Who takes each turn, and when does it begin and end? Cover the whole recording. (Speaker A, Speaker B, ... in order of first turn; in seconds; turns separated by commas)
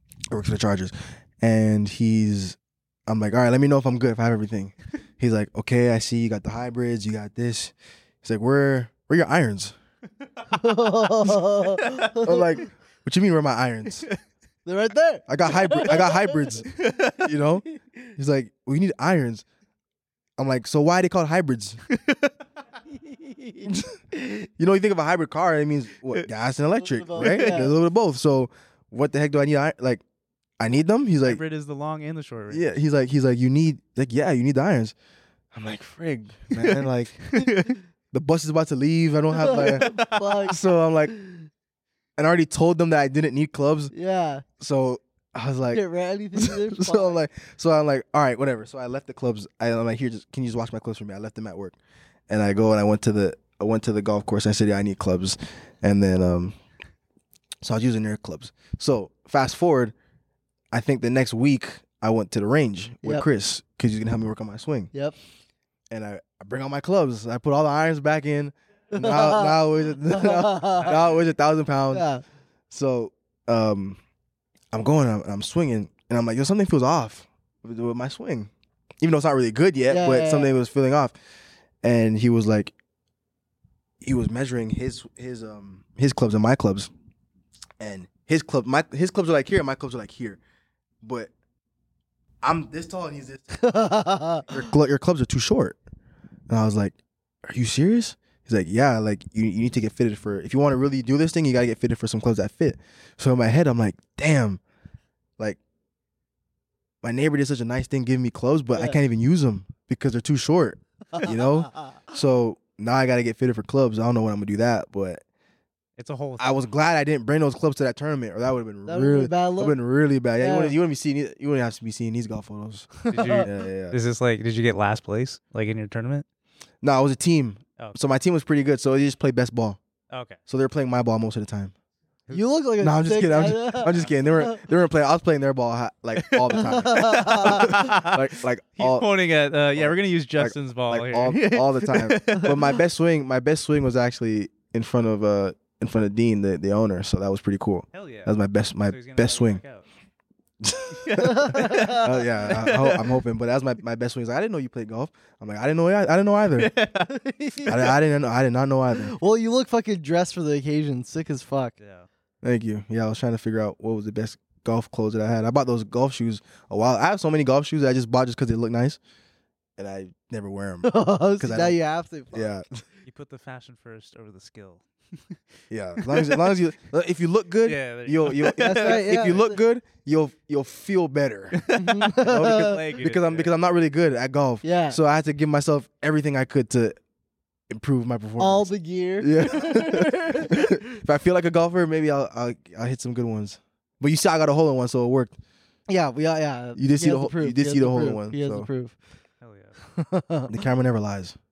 Speaker A: 0.3-9.7, Speaker B: 10.5-12.5, Speaker C: 11.2-12.4, Speaker A: 12.2-14.1, Speaker B: 14.7-16.6, Speaker A: 15.3-17.6, Speaker C: 16.7-17.3, Speaker A: 18.1-19.4, Speaker A: 20.4-21.8, Speaker C: 21.9-22.3, Speaker B: 23.3-24.5, Speaker A: 24.6-30.0, Speaker B: 26.8-27.7, Speaker C: 27.2-27.7, Speaker A: 30.6-31.4, Speaker C: 31.2-32.6, Speaker A: 32.5-34.9, Speaker A: 35.5-37.3, Speaker C: 36.5-37.8, Speaker A: 38.1-39.9, Speaker B: 39.3-40.6, Speaker C: 39.5-40.6, Speaker A: 40.5-41.2, Speaker B: 41.1-41.5, Speaker A: 42.2-43.9, Speaker B: 43.9-44.4, Speaker A: 44.6-45.8, Speaker B: 45.7-47.2, Speaker A: 46.3-51.8, Speaker A: 52.3-56.5, Speaker A: 57.6-59.9, Speaker A: 60.7-64.9, Speaker A: 65.9-72.1, Speaker B: 68.9-71.0, Speaker B: 71.9-72.2, Speaker A: 72.7-74.0, Speaker A: 74.7-78.5, Speaker A: 79.0-81.1, Speaker B: 79.9-80.5, Speaker A: 81.8-82.7, Speaker A: 84.0-86.9, Speaker A: 87.8-90.4, Speaker A: 91.0-91.3, Speaker A: 92.4-93.7, Speaker B: 93.5-94.5, Speaker A: 94.5-95.8, Speaker A: 96.5-104.6, Speaker A: 107.0-115.2, Speaker C: 116.0-116.6, Speaker A: 116.4-124.0, Speaker B: 118.9-119.8, Speaker B: 120.4-120.7, Speaker B: 123.0-123.5, Speaker C: 123.1-126.2, Speaker A: 126.8-129.8, Speaker C: 130.1-130.4, Speaker A: 130.5-131.7, Speaker B: 132.3-134.5, Speaker A: 132.8-139.1, Speaker C: 136.2-138.2, Speaker B: 136.6-137.8, Speaker C: 138.8-142.7, Speaker A: 139.7-149.6, Speaker C: 147.9-148.3, Speaker C: 148.9-149.8, Speaker A: 150.6-156.7, Speaker C: 150.9-153.1, Speaker B: 151.2-152.1, Speaker C: 156.6-157.9, Speaker B: 157.1-157.7, Speaker A: 157.7-159.2, Speaker B: 159.0-161.7, Speaker C: 161.8-162.1, Speaker A: 162.4-169.0, Speaker A: 169.8-171.8, Speaker B: 170.8-172.6, Speaker A: 172.3-172.6, Speaker C: 173.1-175.4, Speaker A: 175.7-181.6, Speaker C: 176.0-176.5, Speaker C: 177.6-179.1, Speaker B: 178.6-179.6, Speaker C: 181.6-183.5, Speaker B: 181.8-182.8, Speaker A: 182.2-187.0, Speaker B: 184.6-185.0, Speaker A: 187.7-188.7, Speaker B: 188.4-190.8, Speaker A: 189.2-195.3, Speaker B: 195.9-198.9, Speaker A: 196.7-198.7, Speaker C: 199.4-199.8, Speaker B: 199.8-200.5, Speaker A: 200.5-201.4